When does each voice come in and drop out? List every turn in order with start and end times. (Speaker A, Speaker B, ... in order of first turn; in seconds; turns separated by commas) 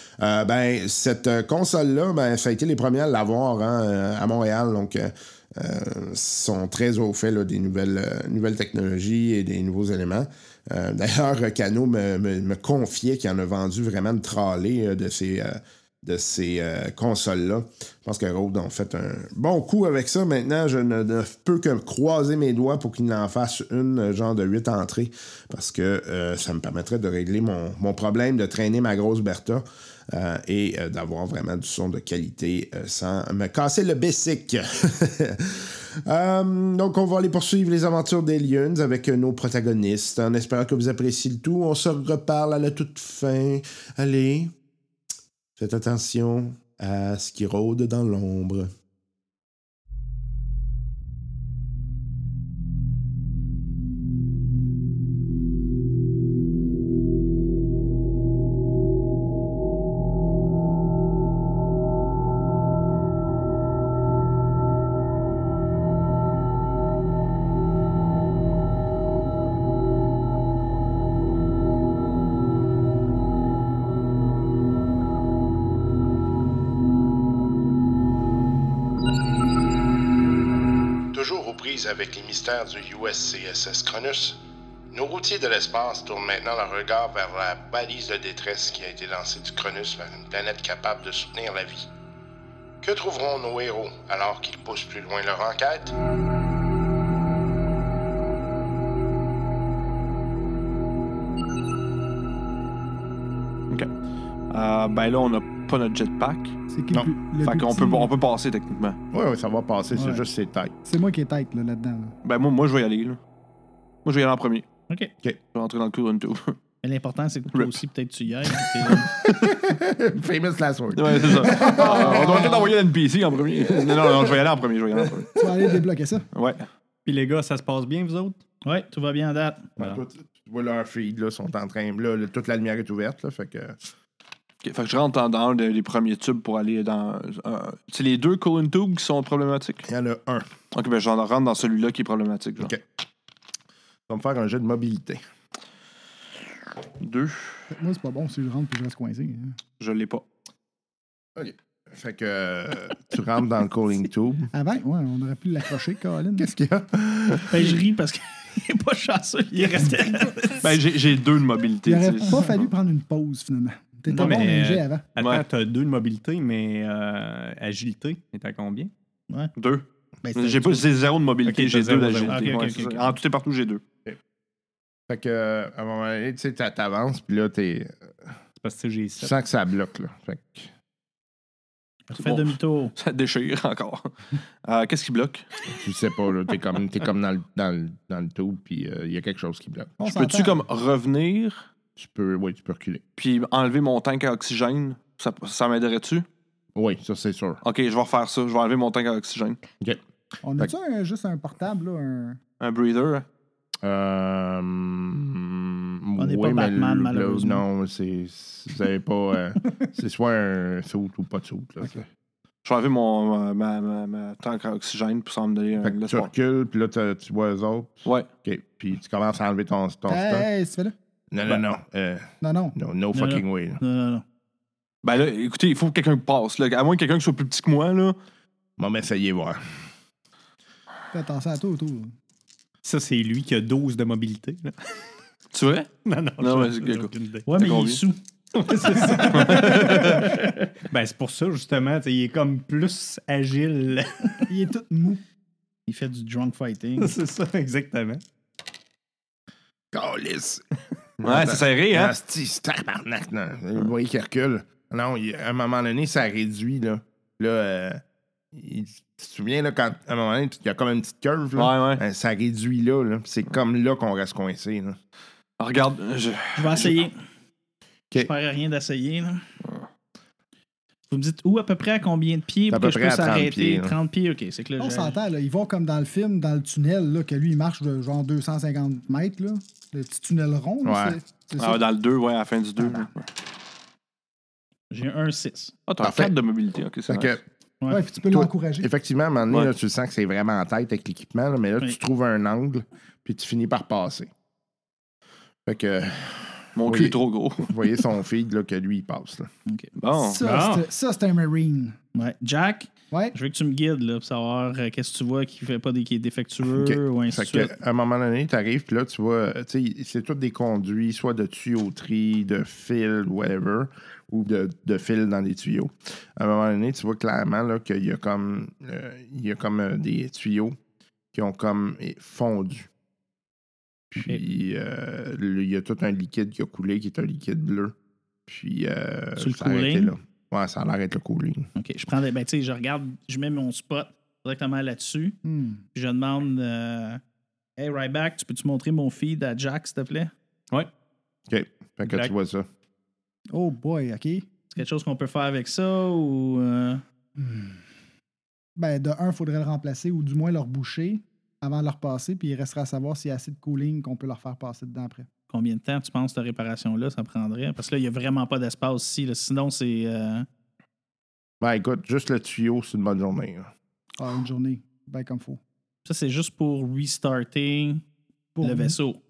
Speaker A: 0.2-44.5, Speaker A: 45.6-48.7, Speaker A: 81.1-84.4, Speaker A: 84.9-91.9, Speaker A: 92.8-95.9, Speaker B: 104.5-106.6, Speaker C: 106.7-108.1, Speaker B: 107.4-109.0, Speaker A: 109.1-110.7, Speaker C: 109.9-110.2, Speaker C: 110.8-112.1, Speaker B: 112.2-113.2, Speaker B: 114.0-114.7, Speaker B: 115.5-116.5, Speaker D: 116.8-119.1, Speaker B: 118.8-119.3, Speaker A: 119.2-122.6, Speaker B: 120.9-125.4, Speaker C: 121.4-122.7, Speaker A: 123.7-124.4, Speaker A: 125.0-125.7, Speaker C: 125.3-126.2, Speaker B: 126.3-126.7, Speaker E: 127.0-128.4, Speaker D: 128.6-129.7, Speaker A: 129.8-133.8, Speaker B: 134.6-139.8, Speaker A: 139.8-140.5, Speaker B: 140.7-142.7, Speaker A: 144.1-145.2, Speaker B: 147.0-147.7, Speaker C: 147.7-149.6, Speaker B: 149.8-150.2, Speaker A: 151.3-154.5, Speaker C: 154.5-156.5, Speaker A: 156.4-157.8, Speaker D: 157.5-160.8, Speaker E: 159.5-159.9, Speaker B: 160.6-162.6, Speaker C: 161.8-165.0, Speaker E: 164.1-168.9, Speaker B: 165.2-165.4, Speaker B: 169.6-173.8, Speaker C: 170.2-170.8, Speaker E: 171.4-172.9, Speaker D: 172.3-173.1, Speaker A: 175.1-178.3, Speaker E: 178.6-179.3, Speaker A: 179.2-180.7, Speaker D: 182.1-182.9, Speaker B: 182.2-185.5, Speaker A: 185.8-189.9, Speaker C: 190.0-190.6, Speaker B: 190.0-191.7, Speaker A: 191.9-193.0, Speaker B: 193.2-196.2, Speaker A: 196.7-197.6, Speaker B: 197.6-199.6, Speaker C: 200.4-202.4, Speaker B: 202.6-203.2, Speaker A: 203.8-212.1, Speaker D: 206.2-207.6, Speaker B: 212.6-216.3, Speaker A: 215.8-220.5, Speaker C: 220.1-220.9, Speaker A: 221.3-223.8, Speaker C: 222.4-222.8, Speaker D: 223.1-224.2, Speaker B: 225.0-228.2, Speaker A: 228.8-229.6, Speaker C: 231.1-232.1, Speaker E: 232.8-234.9, Speaker B: 235.5-238.0, Speaker E: 236.0-237.5, Speaker D: 237.4-238.2, Speaker E: 238.5-244.5, Speaker D: 238.7-240.4, Speaker B: 239.3-240.2, Speaker C: 244.5-245.2, Speaker D: 245.9-247.2, Speaker E: 247.0-248.2, Speaker A: 249.9-250.6, Speaker A: 251.2-258.0, Speaker B: 251.2-252.1, Speaker A: 258.5-265.0, Speaker B: 261.6-262.0, Speaker B: 265.6-267.0, Speaker D: 266.6-267.1, Speaker D: 268.1-269.4, Speaker D: 271.1-275.1, Speaker A: 272.7-273.9, Speaker C: 274.8-281.8, Speaker A: 280.8-281.2, Speaker B: 281.6-283.3, Speaker C: 282.8-283.1, Speaker D: 284.9-285.7, Speaker B: 285.9-287.4, Speaker A: 286.0-286.3, Speaker A: 287.1-287.4, Speaker D: 287.8-288.1, Speaker C: 287.9-288.9, Speaker A: 288.2-294.3, Speaker A: 295.6-299.5, Speaker B: 296.7-297.8, Speaker B: 300.0-300.4, Speaker C: 300.2-302.0, Speaker E: 300.4-300.9, Speaker D: 302.1-307.7, Speaker C: 303.1-303.4, Speaker A: 306.7-320.8, Speaker A: 321.3-322.9, Speaker A: 324.1-327.9, Speaker A: 328.5-331.7, Speaker D: 329.4-330.1, Speaker D: 331.8-335.4, Speaker C: 335.4-335.8, Speaker D: 335.9-337.2, Speaker D: 337.8-340.3, Speaker A: 341.5-342.7, Speaker E: 342.1-342.3, Speaker C: 343.5-344.5, Speaker D: 344.7-347.0, Speaker C: 347.4-347.8, Speaker C: 348.8-355.3, Speaker D: 355.5-360.5, Speaker A: 361.6-363.7, Speaker C: 364.2-365.6, Speaker D: 366.0-368.0, Speaker C: 368.5-369.0, Speaker D: 368.6-369.2